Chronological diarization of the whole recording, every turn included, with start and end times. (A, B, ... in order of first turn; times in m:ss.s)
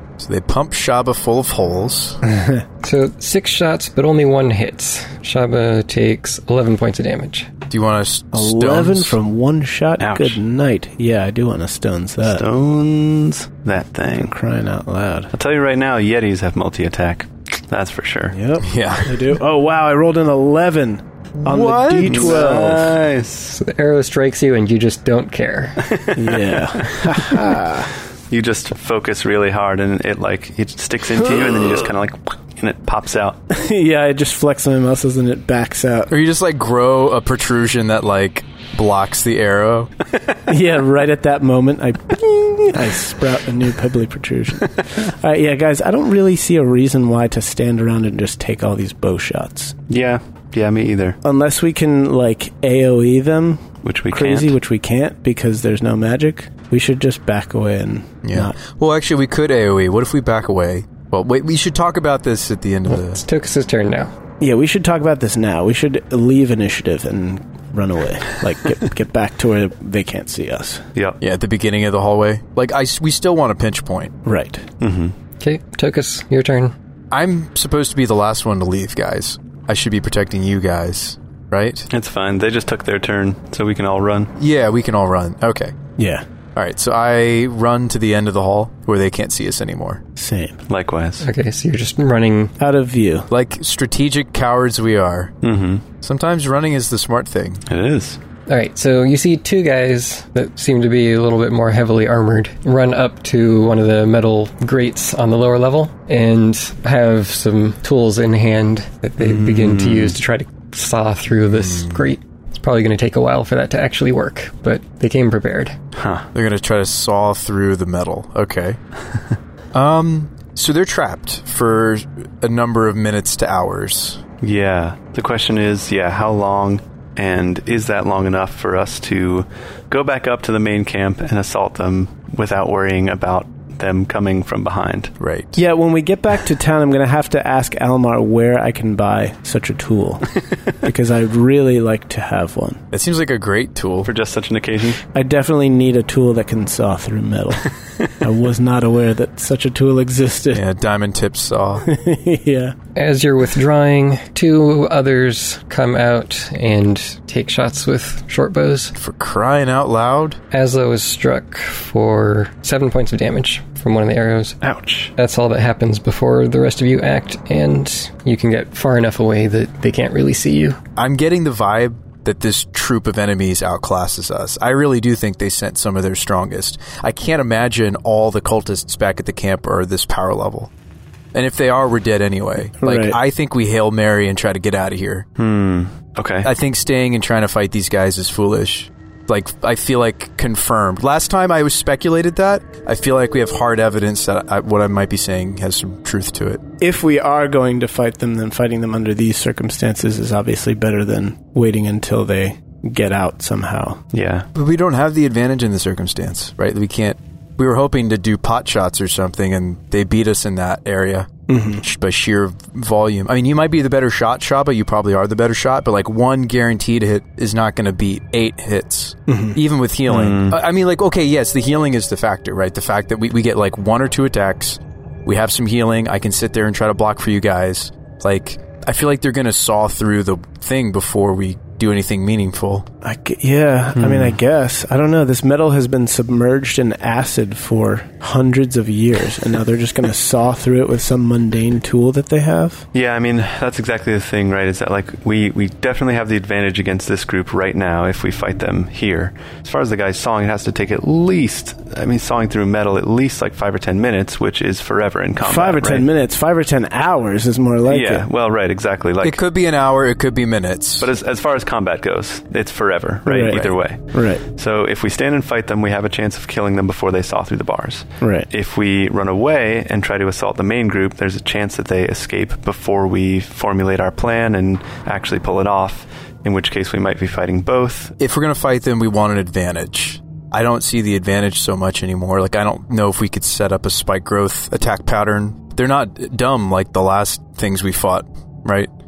0:00.2-0:02.2 A
0:02.3-0:02.6 B
0:02.8-0:07.5 C
0:07.7-0:09.2 A
0:08.3-0:12.4 B
0:10.0-0:10.4 D
0:12.2-0:14.3 D
0:14.1-0:15.3 B
0:15.3-0:18.4 D
0:18.3-0:23.0 B
0:18.6-0:19.3 A
0:21.4-0:22.4 A
0:22.0-0:23.6 D
0:23.5-0:25.9 C
0:25.8-0:26.9 D
0:26.1-0:27.9 B
0:28.3-0:33.4 D
0:33.5-0:36.1 B
0:36.1-0:39.9 A
0:40.5-0:49.8 B
0:49.9-0:51.2 D
0:51.2-0:58.6 B
0:53.8-0:54.6 D
0:58.2-1:03.2 A
1:03.0-1:04.1 C
1:04.4-1:10.8 B
1:11.2-1:14.1 A
1:14.2-1:14.6 B
1:14.8-1:15.1 D
1:15.4-1:16.7 C
1:17.1-1:21.9 A
1:21.9-1:24.3 D
1:24.4-1:25.7 A
1:26.0-1:26.2 B
1:26.5-1:30.0 A
1:30.2-1:30.6 B
1:30.7-1:31.2 D
1:31.2-1:32.5 C
1:32.6-1:33.3 B
1:33.3-1:35.3 A
1:35.4-1:35.8 D
1:36.0-1:37.6 A
1:37.7-1:38.2 D
1:38.5-1:55.7 C
1:49.2-1:50.2 D
1:51.5-1:52.1 A
1:56.0-1:56.3 D
1:56.3-1:58.8 A
1:59.7-2:04.2 A
2:04.4-2:15.1 D
2:15.2-2:15.6 A
2:15.6-2:22.8 B
2:22.9-2:24.1 A
2:24.0-2:25.0 D
2:25.1-2:30.6 B
2:30.5-2:31.9 A
2:31.8-2:32.7 B
2:32.9-2:38.9 C
2:39.0-2:40.4 A
2:40.5-2:44.6 C
2:44.6-2:45.1 D
2:45.2-2:50.8 C
2:51.0-3:00.7 A
3:01.3-3:05.2 A
3:02.8-3:03.2 B
3:05.4-3:06.5 D
3:06.4-3:16.6 A
3:16.8-3:24.0 B
3:24.1-3:24.5 D
3:24.5-3:52.8 A
3:31.5-3:31.8 B
3:39.3-3:39.6 B
3:40.1-3:40.6 D
3:53.0-4:02.8 B
3:54.0-3:54.4 D
4:02.9-4:16.0 D
4:15.4-4:18.3 B
4:17.8-4:19.4 D
4:19.2-4:21.1 A
4:21.0-4:38.1 D
4:23.2-4:24.4 B
4:28.2-4:28.5 B
4:38.2-4:48.9 A